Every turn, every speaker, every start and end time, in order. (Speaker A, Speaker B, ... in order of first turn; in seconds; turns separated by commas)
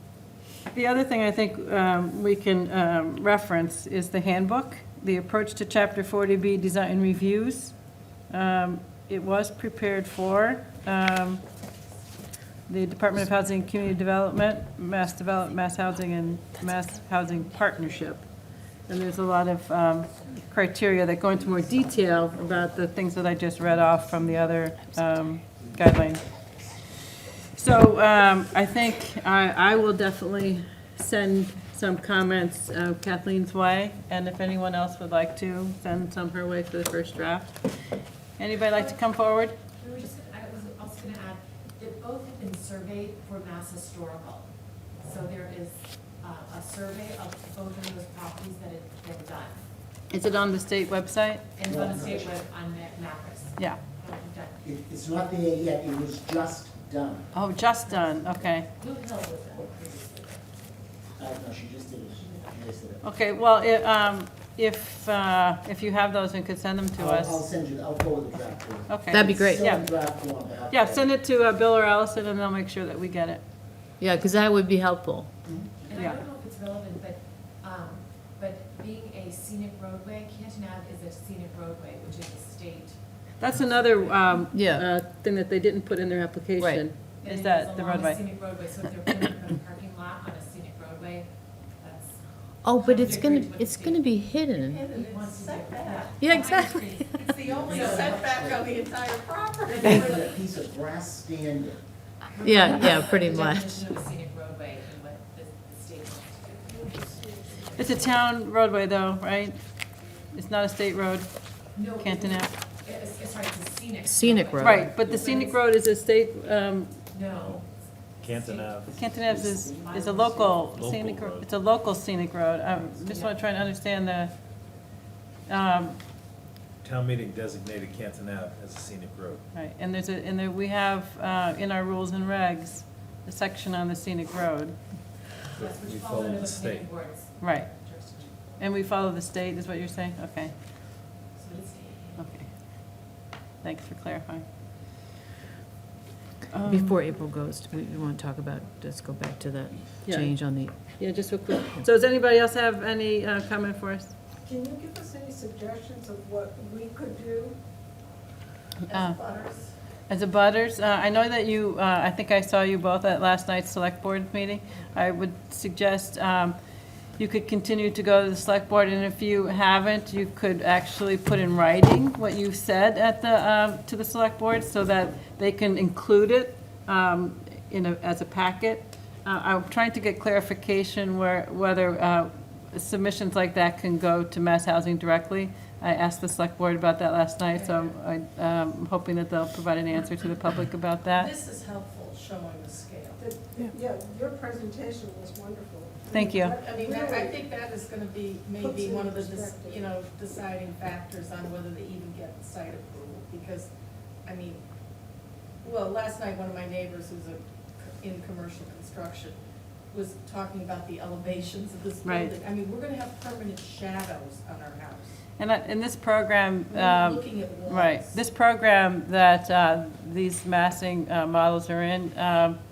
Speaker A: 0.7-7.8, Speaker A: 8.3-11.4, Speaker A: 12.7-18.3, Speaker A: 18.9-26.2, Speaker B: 25.6-26.1, Speaker A: 27.5-37.7, Speaker A: 38.4-39.6, Speaker C: 39.8-44.5, Speaker C: 45.0-49.6, Speaker A: 50.1-51.5, Speaker C: 51.6-54.6, Speaker B: 51.6-52.4, Speaker B: 54.6-57.3, Speaker A: 57.3-58.7, Speaker C: 58.7-60.5, Speaker B: 61.2-63.0, Speaker A: 63.0-67.4, Speaker B: 67.0-71.1, Speaker A: 68.9-69.9, Speaker D: 69.1-69.7, Speaker A: 70.7-73.4, Speaker D: 74.0-75.3, Speaker B: 75.5-75.7, Speaker C: 75.9-83.0, Speaker A: 75.9-76.2, Speaker A: 83.4-88.2, Speaker D: 84.5-84.8, Speaker D: 86.6-86.8, Speaker C: 87.2-91.3, Speaker C: 91.8-92.2, Speaker D: 92.6-94.8, Speaker C: 92.8-94.1, Speaker E: 94.6-96.2, Speaker C: 94.9-98.3, Speaker D: 96.2-97.1, Speaker E: 97.2-100.3, Speaker B: 97.4-98.7, Speaker B: 99.8-101.8, Speaker C: 102.3-106.8, Speaker D: 102.4-103.7, Speaker F: 106.7-107.8, Speaker A: 107.8-109.6, Speaker A: 110.3-111.3, Speaker C: 111.7-115.3, Speaker A: 112.0-112.5, Speaker D: 114.0-114.9, Speaker A: 114.6-117.0, Speaker C: 117.2-117.5, Speaker G: 117.2-119.1, Speaker C: 118.4-118.7, Speaker A: 118.9-124.3, Speaker B: 119.3-119.8, Speaker C: 119.7-120.5, Speaker G: 120.6-121.5, Speaker A: 125.5-126.0, Speaker G: 126.8-129.4, Speaker A: 129.5-134.8, Speaker G: 135.5-137.0, Speaker C: 135.6-137.3, Speaker A: 137.4-137.7, Speaker C: 137.8-138.5, Speaker A: 138.6-140.5, Speaker C: 141.4-142.2, Speaker A: 142.2-142.5, Speaker A: 143.6-144.4, Speaker A: 146.5-146.9, Speaker D: 146.7-150.8, Speaker A: 150.1-150.3, Speaker A: 151.0-154.1, Speaker F: 154.4-157.6, Speaker E: 158.9-159.7, Speaker A: 158.9-159.2, Speaker A: 160.1-166.6, Speaker A: 167.2-191.3, Speaker E: 187.5-187.9, Speaker E: 191.1-193.2, Speaker F: 193.2-197.5, Speaker A: 196.1-196.6, Speaker E: 196.5-203.7, Speaker F: 198.5-199.9, Speaker E: 204.2-204.6, Speaker E: 205.6-209.4, Speaker E: 209.9-215.2, Speaker A: 212.0-212.3, Speaker A: 215.4-222.6, Speaker E: 216.7-218.2